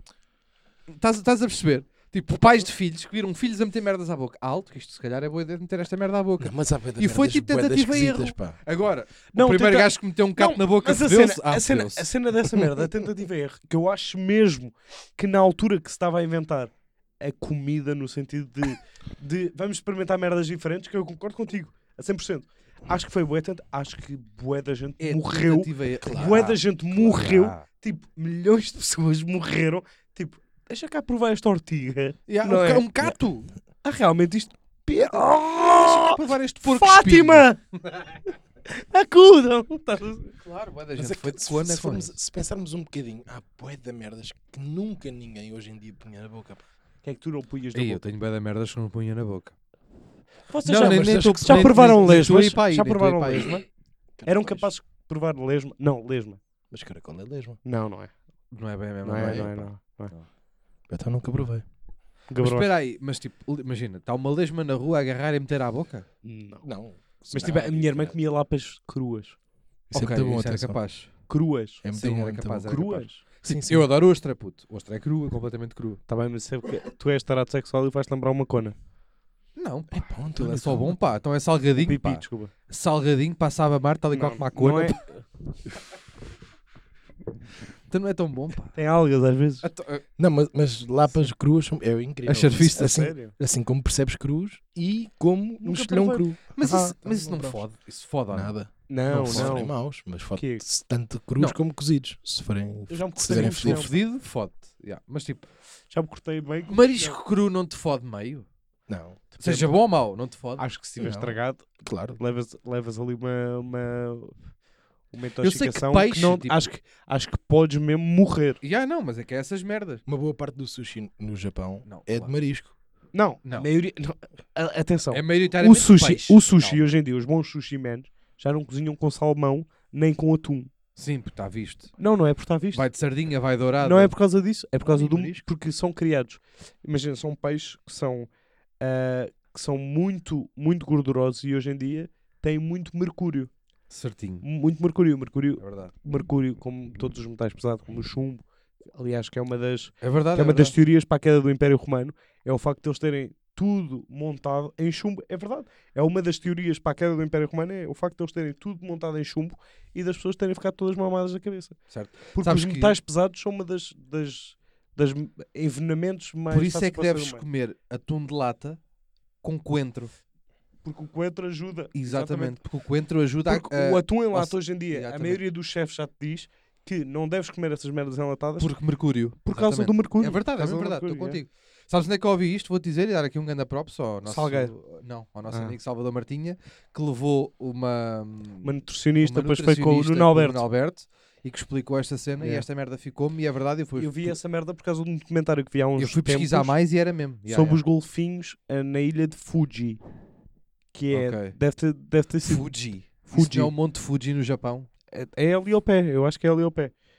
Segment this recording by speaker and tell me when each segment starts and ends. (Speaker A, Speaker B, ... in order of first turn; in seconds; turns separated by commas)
Speaker A: 0.9-12.1, Speaker B: 6.4-8.6, Speaker C: 9.3-32.9, Speaker A: 25.0-27.6, Speaker B: 26.1-26.4, Speaker A: 32.3-33.5, Speaker C: 33.8-37.6, Speaker A: 35.0-38.0, Speaker C: 38.7-40.3, Speaker A: 40.4-42.1, Speaker B: 41.0-46.6, Speaker C: 47.0-48.0, Speaker A: 47.7-49.5, Speaker C: 50.5-53.6, Speaker A: 50.6-53.6, Speaker B: 50.7-51.9, Speaker B: 54.2-54.7, Speaker C: 54.3-56.4, Speaker B: 56.7-57.6, Speaker C: 57.6-58.1, Speaker A: 58.5-60.2, Speaker C: 59.0-60.1, Speaker B: 59.1-59.5, Speaker B: 60.9-61.6, Speaker C: 62.3-62.7, Speaker A: 62.4-66.0, Speaker C: 66.2-66.6, Speaker B: 66.6-68.1, Speaker C: 67.3-69.4, Speaker B: 69.9-70.8, Speaker A: 69.9-71.1, Speaker C: 71.3-71.8, Speaker B: 71.8-72.7, Speaker A: 71.9-76.0, Speaker C: 72.6-73.2, Speaker B: 73.5-73.9, Speaker C: 76.1-78.8, Speaker A: 79.6-85.0, Speaker B: 79.9-81.0, Speaker C: 81.8-82.5, Speaker C: 84.1-85.2, Speaker A: 87.9-88.8, Speaker C: 88.8-89.7, Speaker A: 89.6-90.0, Speaker B: 90.2-97.6, Speaker A: 92.3-93.0, Speaker C: 92.8-93.3, Speaker C: 95.6-96.2, Speaker A: 96.5-98.5, Speaker B: 98.3-103.9, Speaker C: 98.9-99.8, Speaker A: 99.2-99.6, Speaker C: 100.3-100.6, Speaker C: 102.9-103.9, Speaker A: 103.3-105.5, Speaker C: 105.9-107.2, Speaker A: 106.7-108.5, Speaker B: 108.9-109.4, Speaker C: 109.4-109.7, Speaker A: 109.4-110.6, Speaker C: 110.6-114.3, Speaker B: 111.0-112.2, Speaker C: 115.1-118.6, Speaker A: 115.4-116.7, Speaker A: 118.6-120.0, Speaker B: 120.1-122.7, Speaker A: 121.9-122.3, Speaker C: 123.1-130.7, Speaker A: 125.1-126.9, Speaker A: 131.0-131.9, Speaker C: 132.0-132.9, Speaker A: 132.7-134.1, Speaker C: 133.8-138.3, Speaker A: 134.8-135.4, Speaker C: 138.8-143.5, Speaker A: 143.9-144.4, Speaker C: 144.4-161.8, Speaker A: 145.6-145.9, Speaker A: 150.0-150.7, Speaker A: 161.9-163.0, Speaker C: 162.3-167.4, Speaker A: 166.5-168.8, Speaker A: 169.4-170.1, Speaker C: 170.8-172.6, Speaker A: 171.9-175.4, Speaker C: 173.5-178.7, Speaker A: 178.6-194.3, Speaker C: 179.5-181.4, Speaker C: 184.2-184.7, Speaker C: 185.5-185.8, Speaker C: 188.6-190.6, Speaker C: 192.4-192.7, Speaker C: 194.0-196.7, Speaker A: 196.0-197.8, Speaker C: 197.5-200.0, Speaker C: 200.9-202.7, Speaker A: 201.1-201.6, Speaker A: 202.4-204.9, Speaker C: 203.3-203.7, Speaker C: 205.1-206.9